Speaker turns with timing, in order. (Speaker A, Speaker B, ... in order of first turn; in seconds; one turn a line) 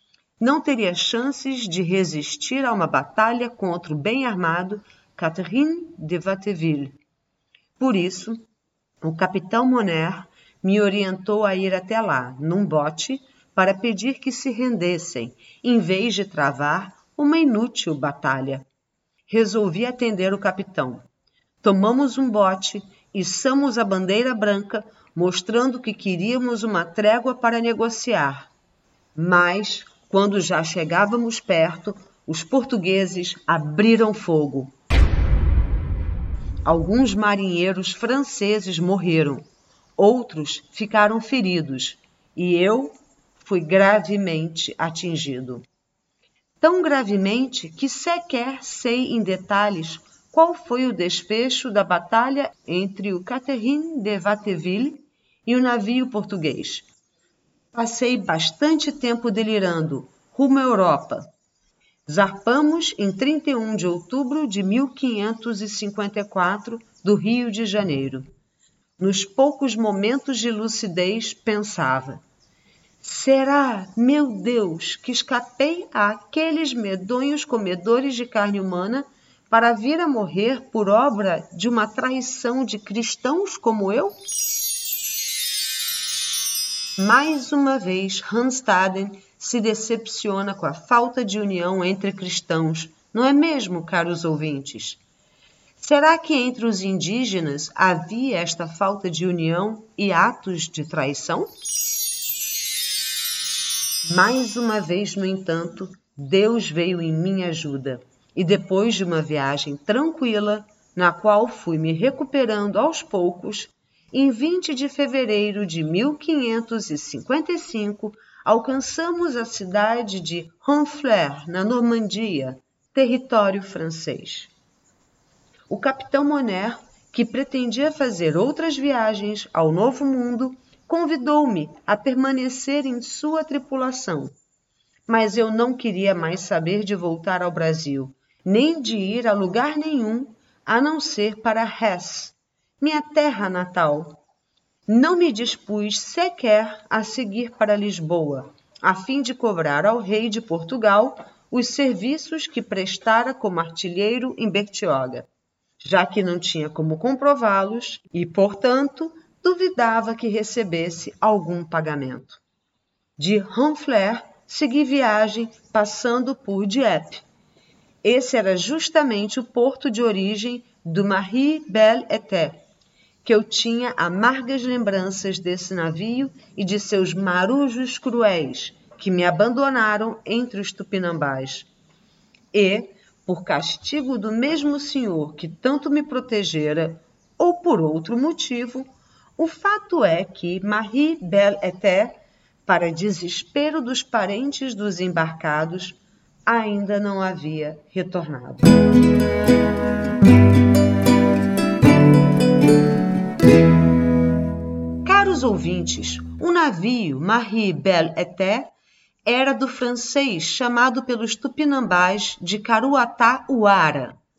Speaker A: 0.4-7.0
Speaker A: 7.8-8.4
Speaker A: 9.0-18.6
Speaker A: 19.3-21.0
Speaker A: 21.6-28.5
Speaker A: 29.1-34.7
Speaker A: 36.6-39.5
Speaker A: 40.0-45.6
Speaker A: 46.6-56.9
Speaker A: 57.7-61.3
Speaker A: 62.1-68.3
Speaker A: 69.0-72.2
Speaker A: 73.0-84.2
Speaker A: 87.0-95.0
Speaker A: 95.8-101.5
Speaker A: 104.0-124.5
Speaker A: 125.7-134.3
Speaker A: 135.1-144.2
Speaker A: 144.9-155.3
Speaker A: 155.8-162.4
Speaker A: 163.2-167.2
Speaker A: 168.0-172.6
Speaker A: 173.2-181.7
Speaker A: 182.5-198.7
Speaker A: 205.1-208.7
Speaker A: 209.2-214.2